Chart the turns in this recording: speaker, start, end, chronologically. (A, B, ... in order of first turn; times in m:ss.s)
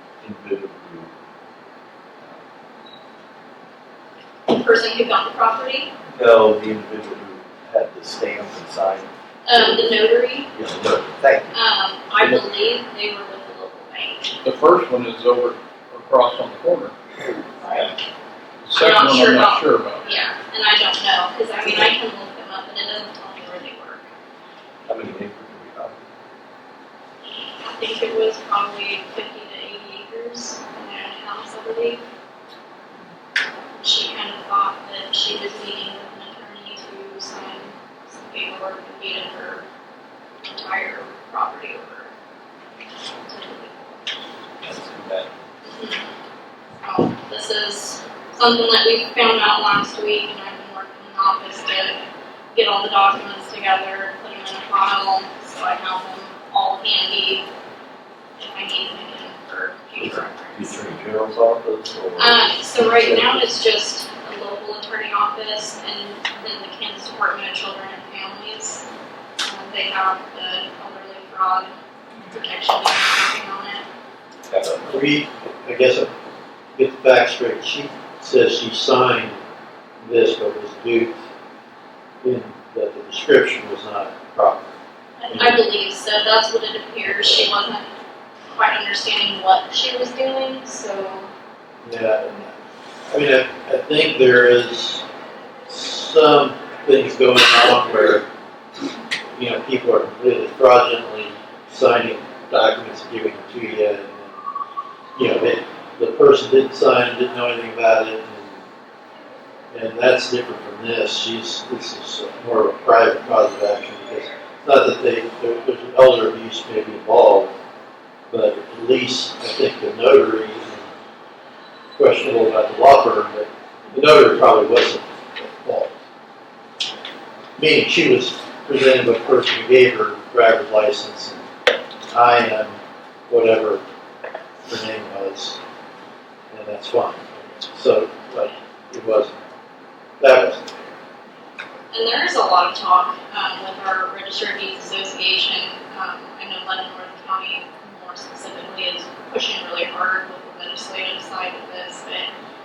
0:00.2-0:01.1 A
0:04.5-0:05.9 B
0:06.1-0:09.1 A
0:09.5-0:10.5 B
0:10.6-0:11.5 A
0:11.5-0:14.4 B
0:14.4-0:16.9 C
0:17.6-0:17.9 B
0:18.6-0:20.0 C
0:18.8-0:24.0 B
0:24.9-0:26.0 A
0:27.6-0:32.0 B
0:33.8-0:39.6 B
0:40.4-0:42.1 B
0:43.3-0:44.0 B
0:44.6-0:45.3 A
0:45.6-0:46.0 B
0:46.8-0:52.0 B
0:52.5-0:57.5 B
0:58.4-1:00.8 B
1:00.0-1:03.2 A
1:02.2-1:08.8 B
1:09.4-1:11.7 B
1:12.3-1:13.8 B
1:14.5-1:14.8 A
1:14.8-1:16.1 D
1:16.8-1:19.4 D
1:20.0-1:21.2 D
1:22.2-1:24.7 D
1:25.2-1:27.9 B
1:25.3-1:25.6 D
1:27.1-1:27.5 D
1:28.5-1:31.3 B
1:31.8-1:32.5 D
1:33.1-1:35.0 D
1:35.7-1:38.3 D
1:39.4-1:44.4 D
1:45.2-1:48.6 D
1:49.7-1:57.5 D
1:58.3-2:00.9 D
2:02.0-2:05.9 D
2:07.6-2:11.4 D
2:12.1-2:12.8 D
2:13.3-2:13.8 D
2:14.7-2:15.6 D
2:16.5-2:19.3 D
2:20.2-2:20.9 D
2:21.9-2:32.3 B